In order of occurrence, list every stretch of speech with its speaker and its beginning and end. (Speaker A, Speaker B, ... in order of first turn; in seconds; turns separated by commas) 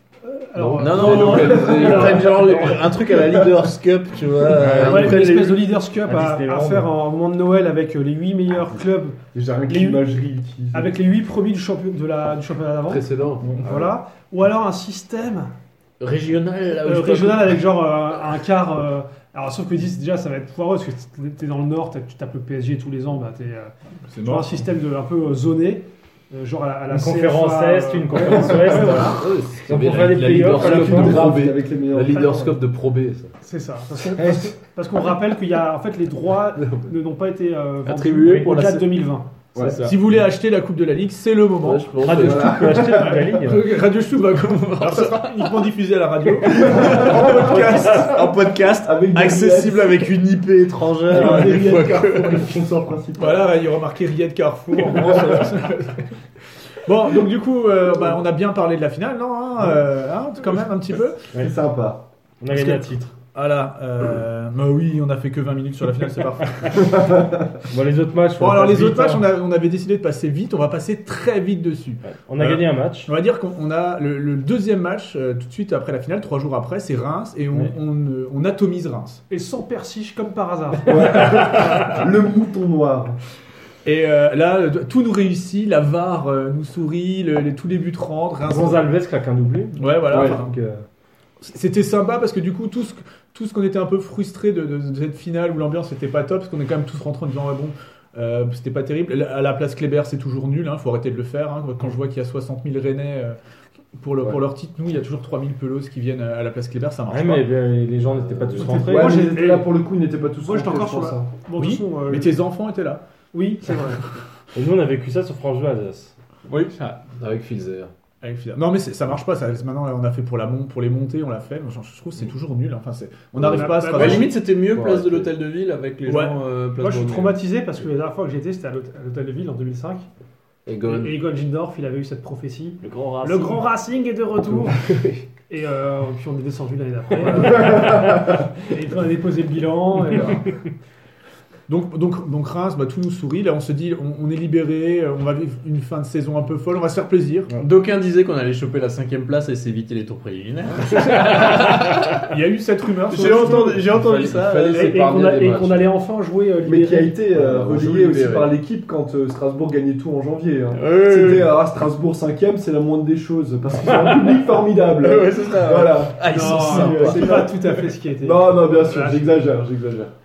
Speaker A: 0.2-2.8, Speaker B: 0.6-2.6, Speaker C: 0.8-5.5, Speaker D: 3.1-3.5, Speaker E: 4.6-5.5, Speaker B: 4.7-5.2, Speaker A: 4.8-10.0, Speaker E: 6.0-6.9, Speaker D: 9.3-10.9, Speaker A: 10.7-15.5, Speaker B: 12.9-13.9, Speaker C: 16.0-17.6, Speaker A: 16.8-29.2, Speaker F: 24.1-24.6, Speaker E: 26.9-31.5, Speaker B: 28.8-33.3, Speaker D: 30.3-32.5, Speaker A: 32.1-32.5, Speaker A: 33.4-39.4, Speaker B: 36.6-36.9, Speaker C: 37.8-38.8, Speaker E: 38.2-38.6, Speaker C: 39.6-40.0, Speaker F: 39.8-42.0, Speaker B: 41.6-42.7, Speaker E: 42.0-43.6, Speaker D: 42.1-43.3, Speaker F: 43.0-50.3, Speaker C: 44.3-45.6, Speaker D: 46.5-50.0, Speaker C: 46.5-52.5, Speaker F: 51.1-52.5, Speaker D: 51.1-53.5, Speaker F: 53.2-56.0, Speaker D: 55.0-55.3, Speaker F: 56.8-61.3, Speaker D: 61.3-62.0, Speaker E: 62.4-63.1, Speaker F: 62.5-62.8, Speaker F: 63.3-67.0, Speaker D: 66.7-67.6, Speaker E: 67.7-69.2, Speaker F: 68.4-79.2, Speaker E: 72.0-73.1, Speaker A: 79.3-81.3, Speaker D: 80.8-83.2, Speaker F: 81.1-82.0, Speaker F: 83.8-88.8, Speaker E: 88.5-90.8, Speaker F: 89.8-90.5, Speaker D: 90.1-90.4, Speaker F: 91.4-103.4, Speaker F: 103.9-107.5, Speaker E: 107.1-109.2, Speaker B: 108.2-108.8, Speaker A: 108.6-109.7, Speaker D: 108.7-111.3, Speaker A: 110.4-112.3, Speaker F: 111.6-113.0, Speaker A: 113.3-114.0, Speaker E: 114.5-116.1, Speaker C: 116.5-117.0, Speaker B: 117.2-117.9, Speaker F: 118.2-124.3, Speaker B: 123.4-123.7, Speaker A: 123.5-124.3, Speaker C: 123.8-127.4, Speaker B: 124.5-125.3, Speaker F: 126.0-126.4, Speaker A: 126.8-130.1, Speaker B: 130.7-131.2, Speaker A: 130.8-134.9, Speaker E: 132.8-133.6, Speaker B: 134.5-135.2, Speaker A: 135.5-140.6, Speaker D: 137.7-138.2, Speaker F: 141.7-147.5, Speaker C: 147.6-152.3, Speaker F: 150.9-153.9, Speaker C: 153.1-155.0, Speaker B: 153.9-155.9, Speaker A: 154.7-157.2, Speaker D: 156.6-170.1, Speaker B: 157.3-158.5, Speaker C: 160.7-161.6, Speaker C: 165.0-167.5, Speaker A: 166.2-169.4